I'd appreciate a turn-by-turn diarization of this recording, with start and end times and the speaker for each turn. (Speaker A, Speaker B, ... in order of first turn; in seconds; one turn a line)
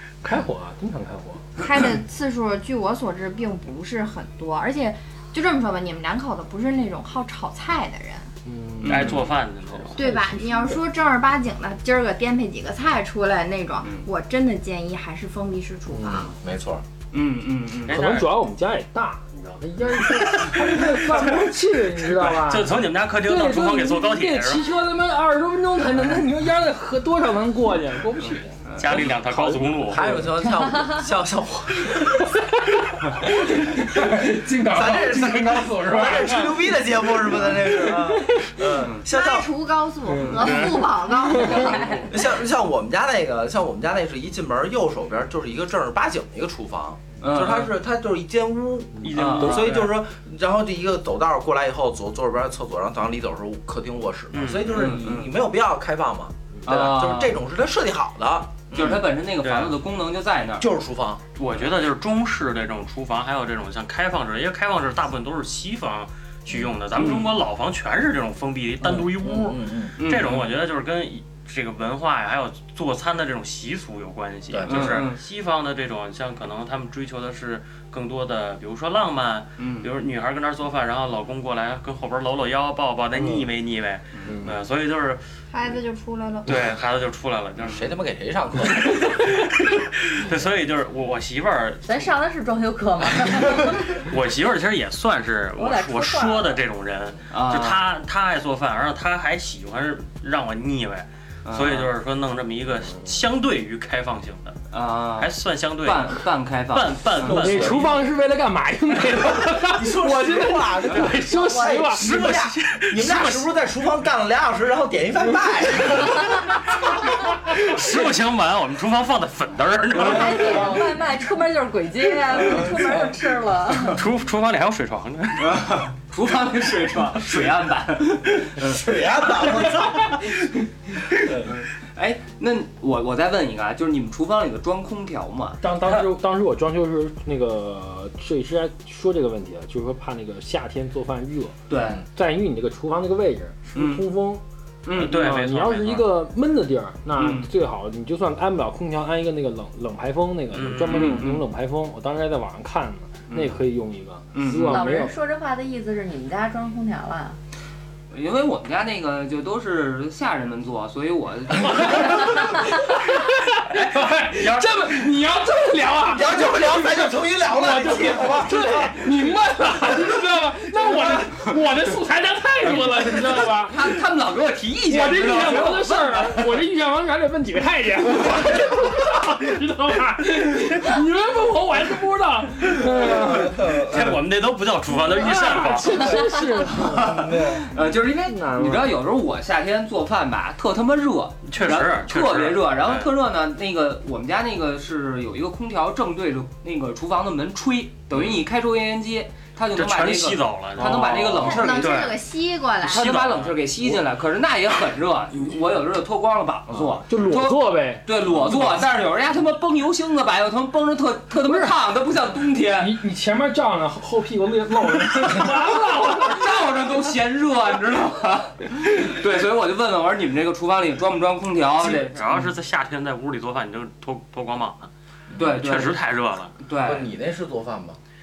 Speaker A: 0.2-1.6
Speaker B: 1.6-8.3
Speaker A: 8.4-10.8
Speaker C: 8.8-9.3
Speaker D: 8.9-10.1
Speaker B: 10.0-16.3
Speaker A: 15.9-16.3
Speaker E: 16.3-16.8
Speaker C: 17.1-18.0
Speaker D: 17.9-18.4
Speaker A: 17.9-30.4
Speaker D: 19.4-21.5
Speaker D: 22.1-24.7
Speaker C: 28.2-29.1
Speaker D: 28.8-30.1
Speaker E: 29.9-32.4
Speaker A: 32.0-38.8
Speaker E: 34.6-39.5
Speaker C: 38.8-39.0
Speaker B: 39.0-42.0
Speaker A: 40.1-41.7
Speaker F: 41.4-42.0
Speaker C: 41.7-42.0
Speaker E: 42.1-59.1
Speaker C: 47.2-47.7
Speaker A: 49.0-49.7
Speaker D: 49.0-49.9
Speaker C: 49.1-49.7
Speaker D: 54.3-55.0
Speaker C: 54.7-55.3
Speaker C: 56.6-57.4
Speaker C: 58.7-60.7
Speaker D: 59.4-59.8
Speaker E: 60.6-61.2
Speaker D: 61.4-85.2
Speaker E: 66.5-66.8
Speaker C: 67.0-67.4
Speaker E: 69.0-70.0
Speaker C: 70.0-70.6
Speaker E: 74.5-75.1
Speaker C: 74.7-75.2
Speaker C: 79.6-79.9
Speaker A: 84.3-84.6
Speaker B: 85.5-86.6
Speaker D: 86.5-87.8
Speaker C: 87.6-87.9
Speaker E: 87.6-89.0
Speaker D: 88.8-92.1
Speaker F: 91.9-94.0
Speaker D: 93.9-104.6
Speaker F: 95.6-96.6
Speaker C: 97.3-97.9
Speaker C: 101.5-101.9
Speaker C: 104.7-105.3
Speaker D: 105.2-106.2
Speaker C: 105.8-107.6
Speaker D: 106.7-108.0
Speaker A: 107.2-112.4
Speaker E: 107.2-108.0
Speaker E: 109.2-116.8
Speaker D: 111.9-113.5
Speaker D: 116.8-120.8
Speaker F: 120.0-124.0
Speaker D: 123.8-125.7
Speaker C: 125.4-130.3
Speaker E: 128.4-130.3
Speaker C: 131.1-135.6
Speaker A: 135.6-141.6
Speaker D: 135.8-136.1
Speaker C: 141.7-142.0
Speaker A: 142.1-144.4
Speaker C: 143.8-144.1
Speaker C: 144.8-145.3
Speaker D: 145.0-146.1
Speaker A: 145.0-155.2
Speaker C: 147.2-147.5
Speaker D: 150.5-151.3
Speaker C: 150.9-151.4
Speaker C: 153.3-153.6
Speaker C: 154.3-154.8
Speaker F: 154.7-157.4
Speaker C: 158.1-162.8
Speaker A: 161.7-174.0
Speaker D: 164.3-164.9
Speaker E: 166.1-169.0
Speaker C: 173.6-176.6
Speaker A: 174.9-184.2
Speaker E: 182.7-184.2
Speaker D: 183.9-186.5
Speaker A: 184.9-189.0
Speaker C: 186.6-202.0
Speaker E: 186.8-187.7
Speaker D: 191.4-193.1
Speaker D: 198.2-198.4
Speaker D: 199.7-202.2
Speaker B: 201.4-203.1
Speaker C: 202.8-213.0
Speaker D: 202.9-203.7
Speaker A: 206.8-208.6
Speaker A: 211.4-211.8
Speaker A: 212.8-216.6
Speaker C: 216.1-222.2
Speaker D: 221.8-224.9
Speaker E: 225.3-225.6
Speaker C: 225.4-226.0
Speaker D: 225.5-226.5
Speaker C: 226.6-227.1
Speaker E: 226.8-228.0